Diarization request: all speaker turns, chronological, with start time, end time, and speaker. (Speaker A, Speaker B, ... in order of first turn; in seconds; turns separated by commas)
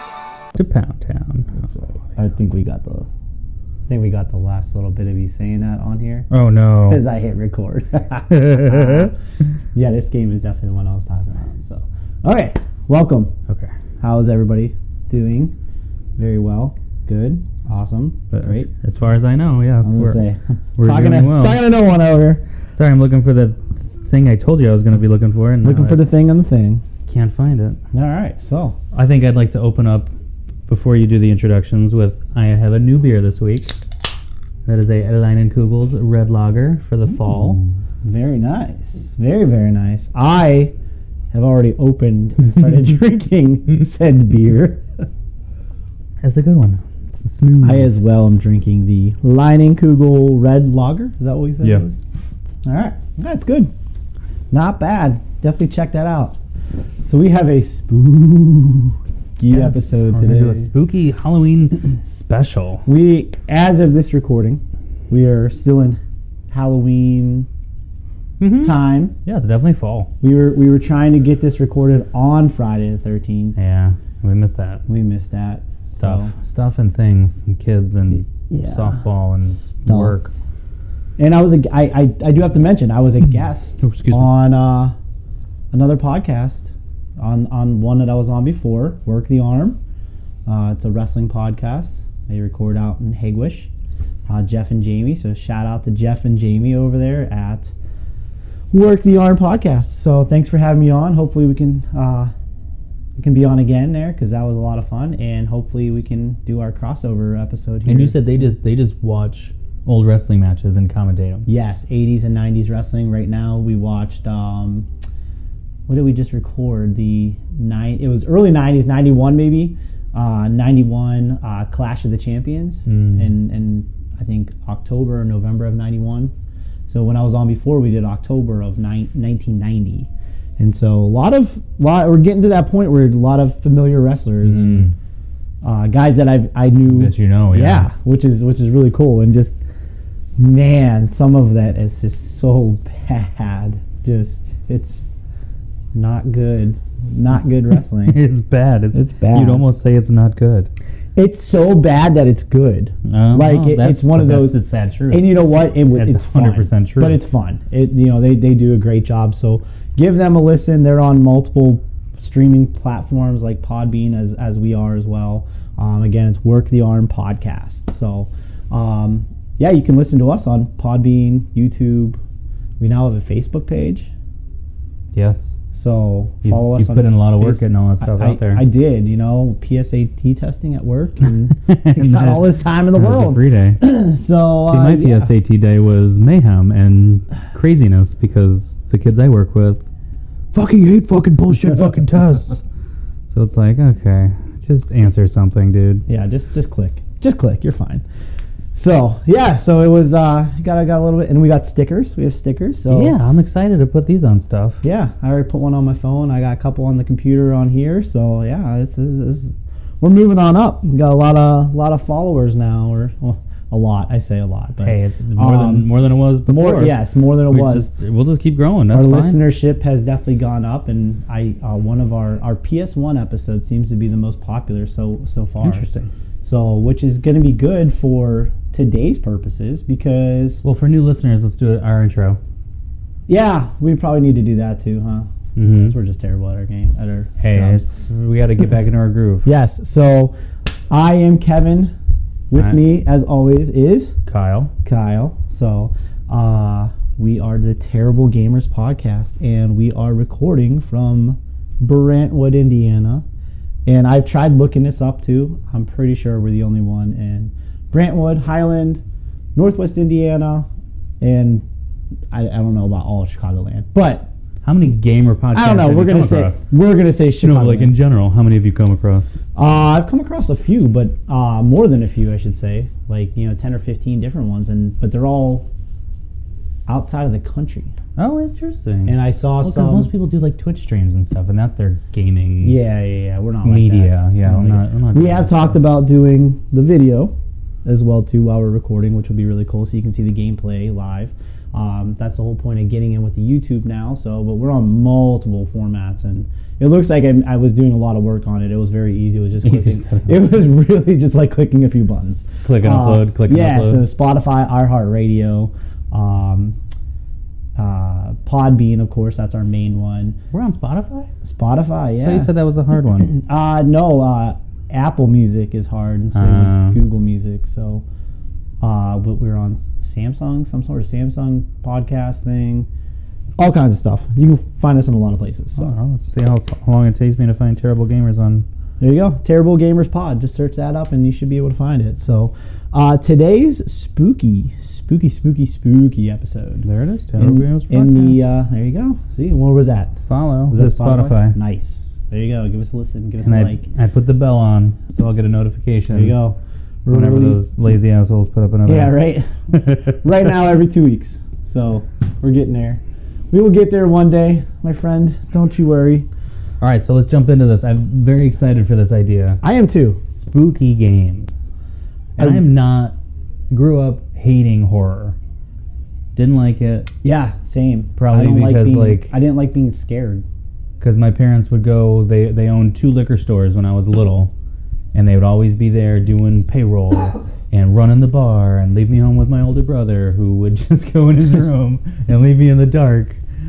Speaker A: 0.6-1.6, Speaker B: 1.5-3.1, Speaker B: 3.9-6.3, Speaker A: 6.3-7.0, Speaker B: 6.8-9.1, Speaker A: 8.3-9.1, Speaker B: 9.7-13.3, Speaker A: 13.5-13.7, Speaker B: 14.0-15.5, Speaker B: 16.2-18.7, Speaker A: 18.3-20.2, Speaker B: 19.8-22.4, Speaker A: 20.8-21.6, Speaker A: 22.7-26.1, Speaker B: 25.6-26.8, Speaker A: 27.1-27.8, Speaker B: 27.9-28.8, Speaker A: 28.9-30.1, Speaker A: 30.7-33.8, Speaker A: 34.7-37.6, Speaker B: 38.0-40.7, Speaker B: 41.3-45.0, Speaker A: 46.2-47.9, Speaker B: 47.6-52.0, Speaker B: 52.6-53.7, Speaker B: 54.5-56.4, Speaker B: 57.0-60.7, Speaker A: 59.5-62.9, Speaker B: 62.9-66.0, Speaker B: 66.5-67.5, Speaker A: 68.4-70.1, Speaker B: 68.6-69.2, Speaker B: 70.2-73.6, Speaker A: 73.6-74.8, Speaker B: 74.9-76.3, Speaker A: 75.9-80.3, Speaker B: 78.3-79.0, Speaker B: 79.7-80.2, Speaker B: 81.2-85.0, Speaker A: 83.8-84.3, Speaker B: 85.7-89.8, Speaker B: 90.5-93.7, Speaker B: 94.3-97.7, Speaker B: 98.7-102.3, Speaker B: 103.2-108.4, Speaker A: 107.9-111.5, Speaker B: 111.5-114.9, Speaker B: 115.9-126.3, Speaker A: 122.9-123.3, Speaker B: 126.9-134.9, Speaker A: 134.4-134.9, Speaker B: 135.6-139.6, Speaker A: 136.9-137.9, Speaker B: 140.4-145.1, Speaker B: 145.9-148.2, Speaker A: 148.1-150.7, Speaker B: 148.9-149.6, Speaker B: 151.2-172.2, Speaker A: 153.1-157.2, Speaker B: 172.8-174.1, Speaker A: 175.1-175.6, Speaker B: 175.7-185.3, Speaker A: 176.4-178.7, Speaker A: 181.6-183.8, Speaker A: 184.7-189.8, Speaker A: 190.5-192.6, Speaker A: 193.3-196.1, Speaker B: 196.1-198.0, Speaker B: 198.8-203.2, Speaker A: 202.9-204.8, Speaker B: 204.8-215.9, Speaker A: 214.8-219.4, Speaker B: 216.5-217.9, Speaker B: 218.9-225.9, Speaker A: 225.6-226.1, Speaker B: 226.4-230.6, Speaker A: 230.6-232.4, Speaker B: 233.3-237.9, Speaker A: 235.6-236.0, Speaker A: 237.4-239.5, Speaker B: 239.4-240.3, Speaker B: 240.9-241.9, Speaker B: 242.5-244.2, Speaker A: 242.6-242.8, Speaker A: 244.3-244.7, Speaker B: 244.8-253.2, Speaker B: 253.8-259.0, Speaker B: 259.6-260.7, Speaker B: 261.2-261.6, Speaker B: 262.3-264.3, Speaker A: 264.6-266.6, Speaker B: 265.5-267.9, Speaker A: 267.4-269.3, Speaker B: 269.6-275.7, Speaker B: 276.9-277.9, Speaker A: 278.2-282.8, Speaker B: 279.1-280.1, Speaker B: 282.6-306.8, Speaker A: 283.6-285.8, Speaker A: 299.6-300.5, Speaker A: 302.6-304.1, Speaker B: 307.8-310.4, Speaker A: 310.5-311.3, Speaker B: 311.4-312.5, Speaker A: 312.2-313.3, Speaker B: 313.2-318.0, Speaker A: 316.3-317.0, Speaker B: 318.8-322.9, Speaker B: 323.6-325.9, Speaker A: 325.8-328.7, Speaker B: 329.0-336.9, Speaker A: 336.8-338.4, Speaker B: 337.4-343.9, Speaker A: 340.2-341.6, Speaker A: 343.4-346.4, Speaker B: 346.1-347.6, Speaker A: 347.1-349.2, Speaker B: 348.9-356.3, Speaker A: 349.7-350.2, Speaker A: 356.8-359.6, Speaker B: 359.6-360.2, Speaker A: 360.3-361.5, Speaker B: 362.4-362.7, Speaker A: 362.4-363.2, Speaker A: 363.7-365.4, Speaker A: 366.4-367.1, Speaker B: 367.2-370.5, Speaker A: 368.2-369.4, Speaker A: 371.0-374.5, Speaker A: 375.1-383.4